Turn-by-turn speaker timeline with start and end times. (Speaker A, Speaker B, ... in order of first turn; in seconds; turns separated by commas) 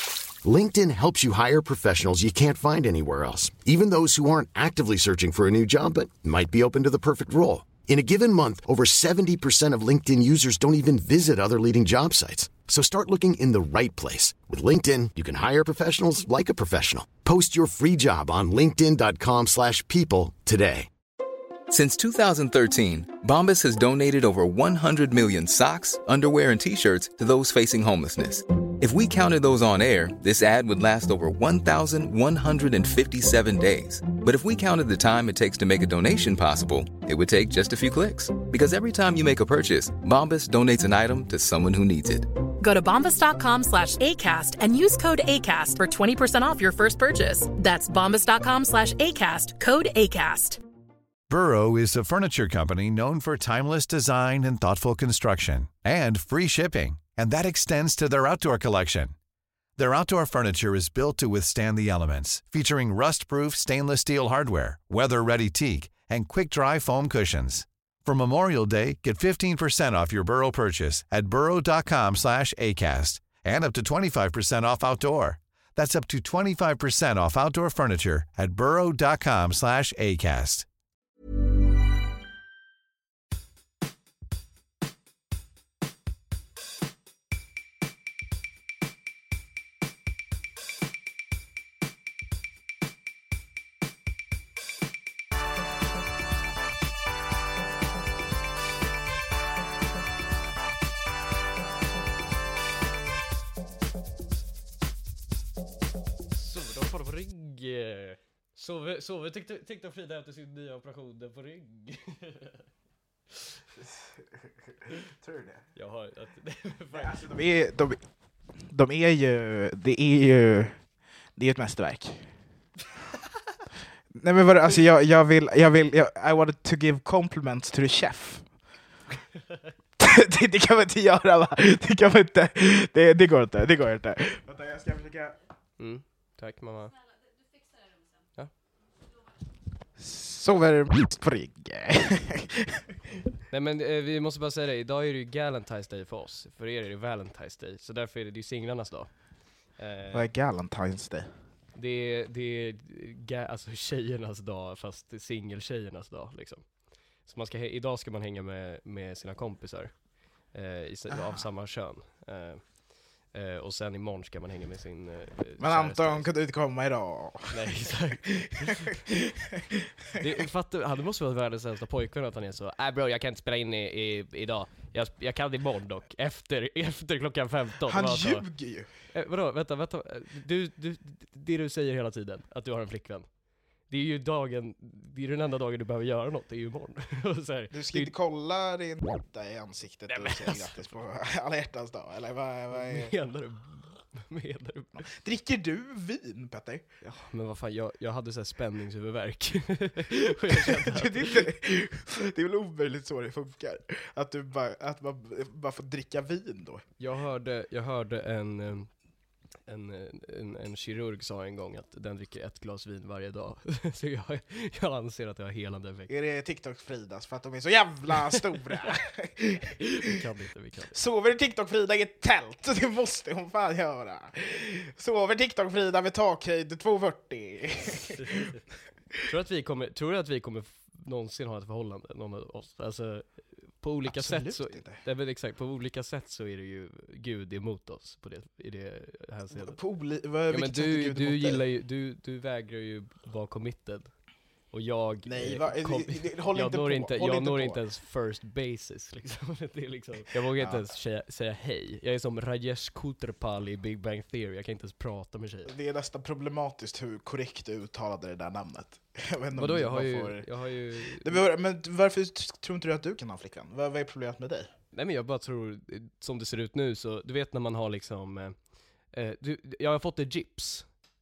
Speaker A: 0.4-20.9, Speaker B: 21.7-42.3, Speaker C: 42.6-50.6, Speaker D: 51.3-59.1, Speaker D: 59.8-80.7, Speaker E: 106.3-112.6, Speaker F: 113.8-115.7, Speaker E: 115.8-117.1, Speaker F: 116.9-118.0, Speaker F: 118.7-120.8, Speaker F: 121.3-122.3, Speaker F: 124.2-128.5, Speaker F: 130.0-135.4, Speaker E: 135.8-137.0, Speaker F: 140.0-142.8, Speaker E: 143.5-150.3, Speaker F: 150.1-151.3, Speaker E: 151.7-166.3, Speaker F: 161.1-161.4, Speaker F: 165.6-167.6, Speaker E: 167.5-169.0, Speaker F: 168.2-170.2, Speaker E: 170.1-178.5, Speaker F: 177.9-178.9, Speaker E: 179.1-183.3, Speaker E: 183.9-188.1, Speaker F: 187.7-193.1, Speaker E: 190.1-190.7, Speaker E: 192.7-195.0, Speaker F: 195.0-196.9, Speaker E: 197.0-201.5, Speaker F: 200.7-206.8, Speaker E: 207.0-208.9, Speaker E: 209.7-216.1, Speaker F: 216.1-220.0, Speaker E: 219.8-220.9, Speaker F: 220.9-228.5, Speaker E: 228.0-228.6, Speaker E: 229.2-239.8, Speaker F: 234.1-235.0, Speaker F: 239.6-241.6, Speaker E: 240.5-244.1, Speaker E: 244.7-255.7, Speaker F: 245.2-247.8, Speaker F: 250.6-250.8, Speaker F: 255.7-260.5, Speaker E: 259.6-261.4, Speaker F: 261.1-264.7, Speaker E: 264.9-268.6, Speaker E: 269.1-270.9